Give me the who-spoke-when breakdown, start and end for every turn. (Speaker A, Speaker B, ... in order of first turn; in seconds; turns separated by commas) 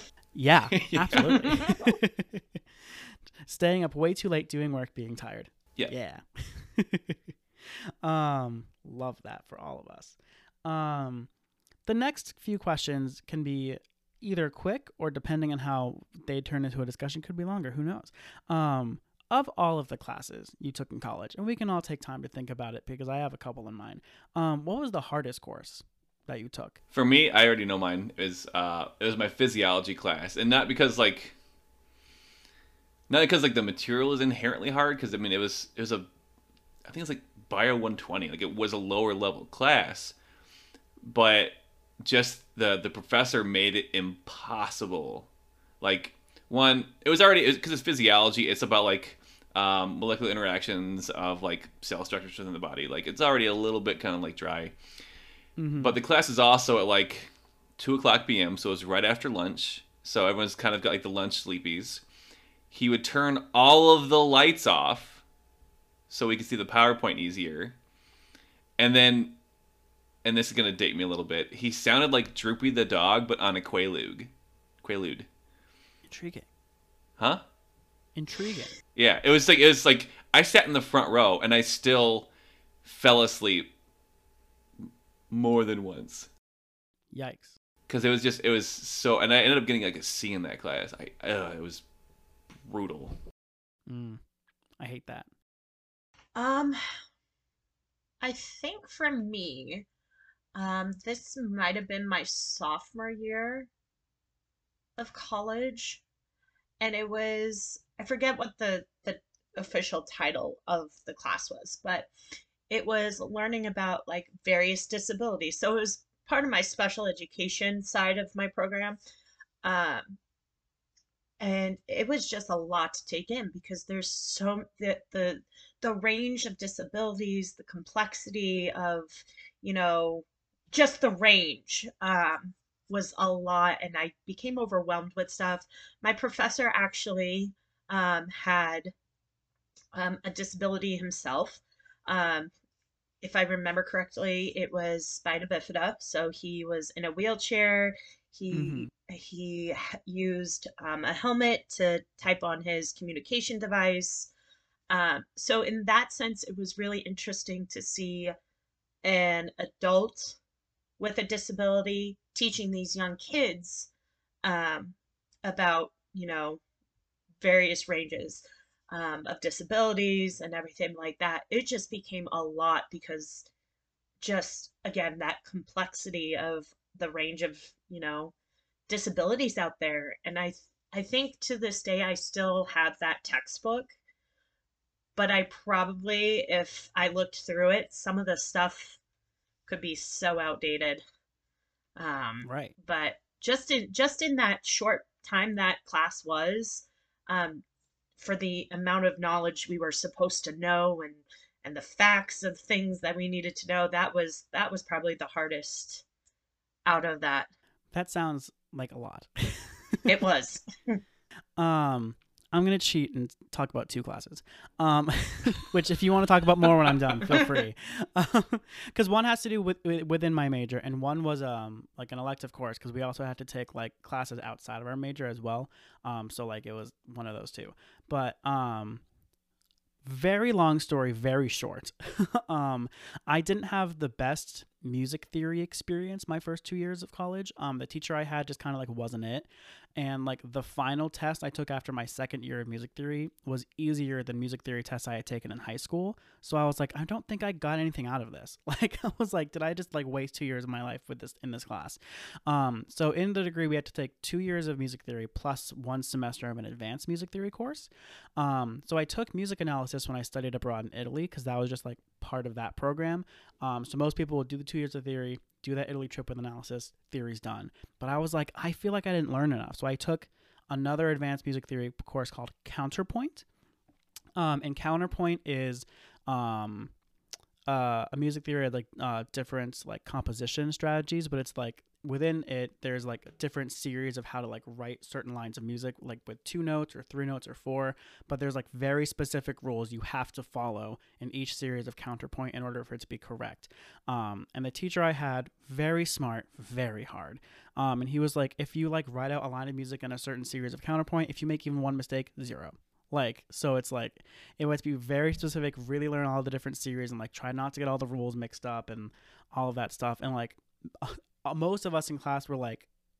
Speaker A: 0.3-11.3, Speaker B: 0.7-1.6, Speaker A: 11.8-26.8, Speaker B: 26.9-31.4, Speaker B: 33.1-36.1, Speaker B: 36.9-40.1, Speaker B: 41.0-45.3, Speaker B: 45.8-54.7, Speaker A: 55.6-56.0, Speaker B: 55.8-62.0, Speaker B: 62.7-65.2, Speaker B: 66.1-67.8, Speaker B: 68.8-69.3, Speaker B: 70.2-74.3, Speaker B: 74.8-75.3, Speaker A: 76.1-76.5, Speaker A: 78.1-78.8, Speaker B: 79.0-82.3, Speaker B: 82.8-83.7, Speaker B: 84.8-86.3, Speaker A: 87.1-87.6, Speaker B: 87.9-91.8, Speaker B: 92.6-93.2, Speaker A: 93.9-94.2, Speaker A: 94.8-95.3, Speaker C: 96.3-96.8, Speaker C: 98.2-99.8, Speaker C: 100.5-103.7, Speaker C: 105.0-106.0, Speaker C: 106.8-112.1, Speaker C: 112.7-119.0, Speaker C: 119.6-120.2, Speaker C: 121.4-138.9, Speaker C: 139.9-142.5, Speaker C: 143.2-154.3, Speaker A: 148.5-148.9, Speaker C: 154.9-158.3, Speaker C: 159.0-160.4, Speaker C: 161.0-163.9, Speaker C: 164.4-166.6, Speaker C: 167.4-173.5, Speaker C: 174.2-178.3, Speaker C: 178.9-183.9, Speaker C: 185.2-189.0, Speaker C: 189.7-191.0, Speaker C: 192.0-197.6, Speaker A: 192.4-192.7, Speaker C: 198.2-206.0, Speaker C: 206.8-207.5, Speaker A: 207.9-210.2, Speaker C: 210.1-211.0, Speaker A: 211.6-229.0, Speaker A: 230.0-273.4, Speaker A: 274.4-276.9, Speaker A: 277.7-312.9